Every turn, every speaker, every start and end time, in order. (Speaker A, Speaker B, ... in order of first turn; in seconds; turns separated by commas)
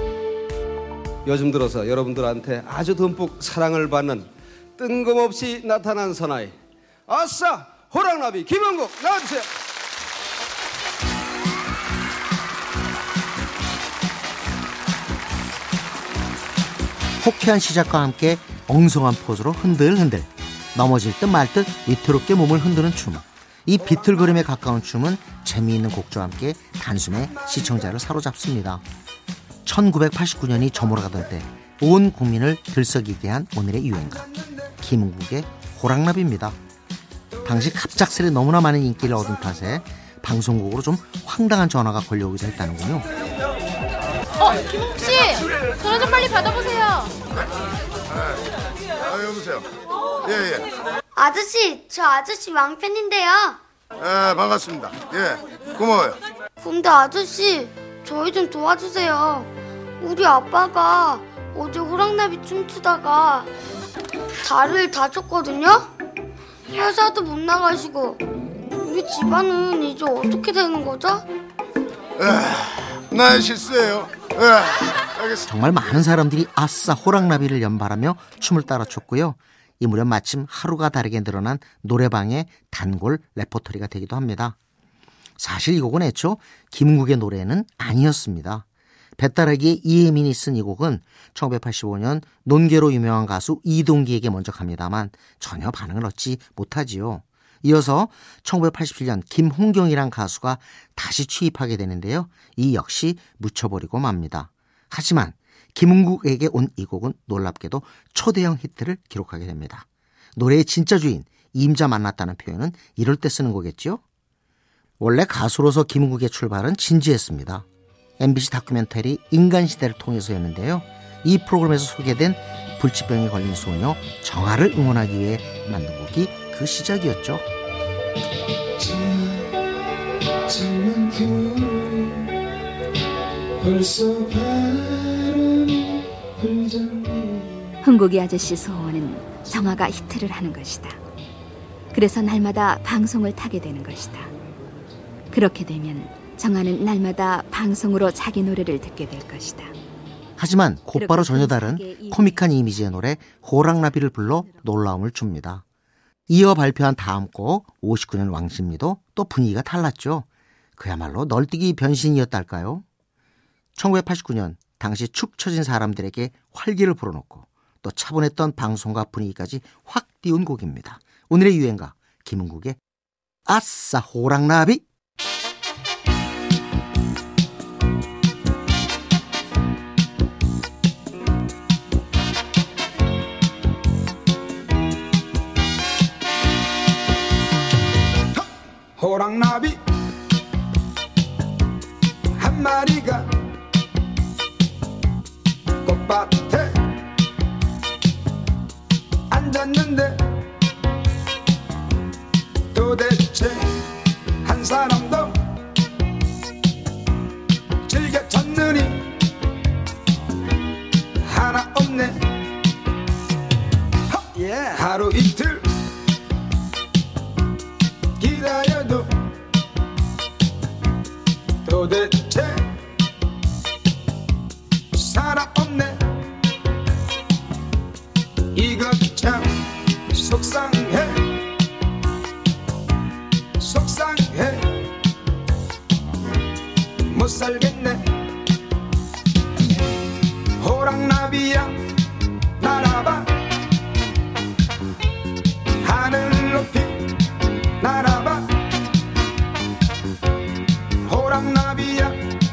Speaker A: 1.2-9.5, Speaker B: 17.2-28.8, Speaker B: 29.6-36.5, Speaker B: 37.4-43.0, Speaker C: 44.4-47.2, Speaker D: 49.1-49.6, Speaker E: 51.1-53.6, Speaker D: 54.1-56.1, Speaker E: 56.6-59.5, Speaker E: 60.0-63.5, Speaker E: 64.4-65.9, Speaker E: 66.7-68.2, Speaker E: 68.7-71.2, Speaker D: 72.2-74.7, Speaker B: 75.5-84.5, Speaker B: 85.4-88.6, Speaker B: 89.2-114.0, Speaker B: 115.0-117.7, Speaker B: 118.2-127.4, Speaker F: 130.5-132.0, Speaker F: 133.6-135.3, Speaker F: 136.4-137.3, Speaker G: 137.8-141.0, Speaker G: 141.9-144.3, Speaker G: 145.3-149.7, Speaker B: 150.4-155.6, Speaker G: 150.9-152.4, Speaker B: 156.3-160.2, Speaker B: 160.8-162.8, Speaker B: 163.8-172.8, Speaker B: 173.5-174.8, Speaker F: 189.0-189.8, Speaker F: 192.4-193.3, Speaker F: 195.8-196.7, Speaker F: 199.3-200.2, Speaker F: 202.7-203.6, Speaker F: 204.4-205.3, Speaker F: 207.9-209.0, Speaker F: 211.2-212.2, Speaker A: 214.3-214.8, Speaker F: 214.8-215.6, Speaker F: 218.2-219.1, Speaker F: 221.6-222.6, Speaker F: 224.9-226.0, Speaker F: 228.5-229.4, Speaker F: 230.1-231.2, Speaker F: 233.6-234.7, Speaker F: 237.1-238.0, Speaker F: 240.6-241.7, Speaker F: 242.6-243.3, Speaker F: 245.8-247.0, Speaker F: 247.8-248.4, Speaker F: 251.1-252.2